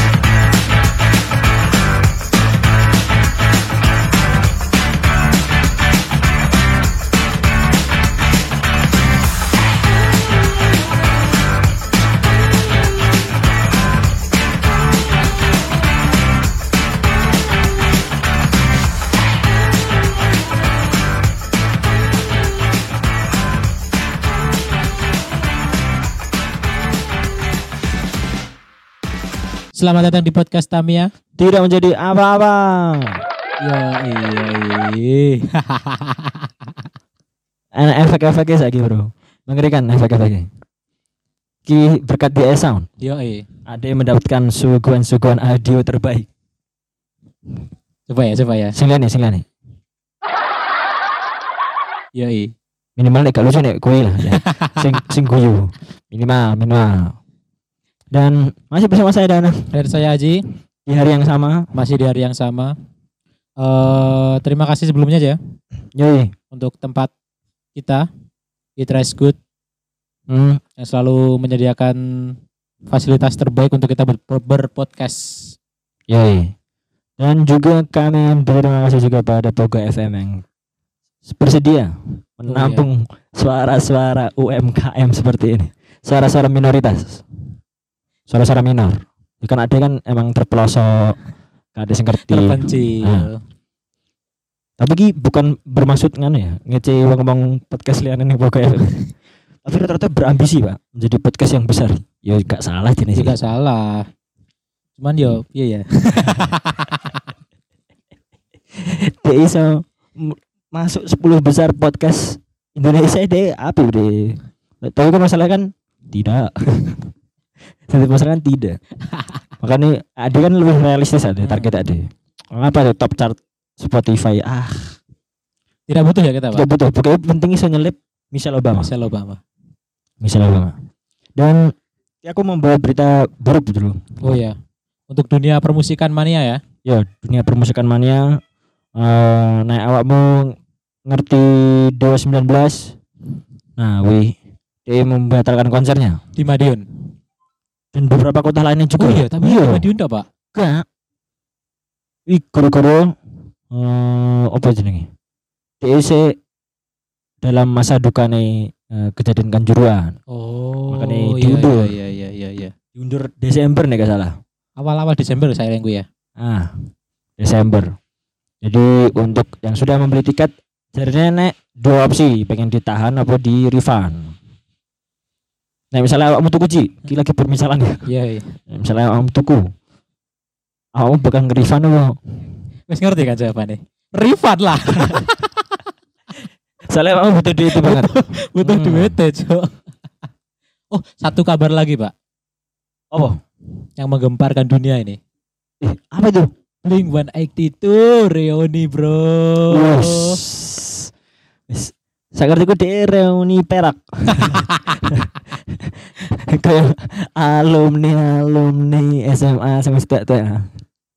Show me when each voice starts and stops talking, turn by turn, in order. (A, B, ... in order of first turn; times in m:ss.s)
0:29.7-0:31.1 A
0:31.4-0:33.2 B
0:33.6-0:36.5 A
0:37.7-0:40.5 B
0:41.6-0:42.9 B
0:43.0-0:43.4 A
0:43.6-0:46.3 B
0:48.1-0:48.8 A
0:48.7-0:49.5 B
0:52.1-0:52.5 A
0:53.0-0:57.2 B
0:54.5-0:54.8 A
0:58.1-0:59.7 B
0:59.7-1:00.4 A
1:00.9-1:01.7 B
1:01.7-1:02.7 A
1:03.6-1:05.4 A
1:06.0-1:06.3 B
1:06.5-1:07.1 A
1:07.7-1:08.1 A
1:08.8-1:09.4 A
1:10.3-1:10.6 B
1:10.8-1:12.4 A
1:12.9-1:15.5 A
1:16.1-1:16.5 B
1:17.2-1:20.4 B
1:21.2-1:27.2 B
1:22.5-1:22.8 A
1:28.3-1:31.2 B
1:31.7-1:33.3 B
1:32.2-1:33.4 A
1:34.8-1:39.0 B
1:39.6-1:43.3 B
1:43.2-1:44.1 A
1:45.0-1:47.0 A
1:48.8-1:57.1 B
1:57.9-1:58.8 B
1:59.6-2:05.0 B
2:01.4-2:01.7 A
2:05.9-2:06.6 A
2:06.5-2:08.9 B
2:08.8-2:09.4 A
2:10.2-2:10.7 B
2:11.4-2:14.0 B
2:14.2-2:14.6 A
2:15.1-2:16.6 A
2:16.8-2:18.4 B
2:19.0-2:23.0 B
2:23.8-2:26.2 B
2:26.4-2:27.0 A
2:27.9-2:29.9 B
2:29.0-2:30.3 A
2:30.5-2:30.8 B
2:32.3-2:33.2 B
2:33.7-2:35.1 B
2:35.8-2:36.4 B
2:37.4-2:40.2 B
2:40.3-2:42.7 A
2:40.9-2:41.9 B
2:43.0-2:44.4 B
2:44.8-2:46.0 A
2:46.4-2:46.7 B
2:47.4-2:48.0 B
2:48.6-2:54.4 B
2:55.9-2:58.0 B
2:58.0-2:58.6 A
2:58.7-2:59.7 B
3:00.9-3:02.2 B
3:02.9-3:05.8 A
3:06.9-3:09.2 B
3:07.7-3:09.7 A
3:10.9-3:12.1 A
3:13.1-3:13.4 B
3:14.0-3:15.2 A
3:15.8-3:16.5 B
3:16.8-3:20.4 A
3:19.7-3:21.1 B
3:21.7-3:30.7 B
3:24.3-3:25.0 A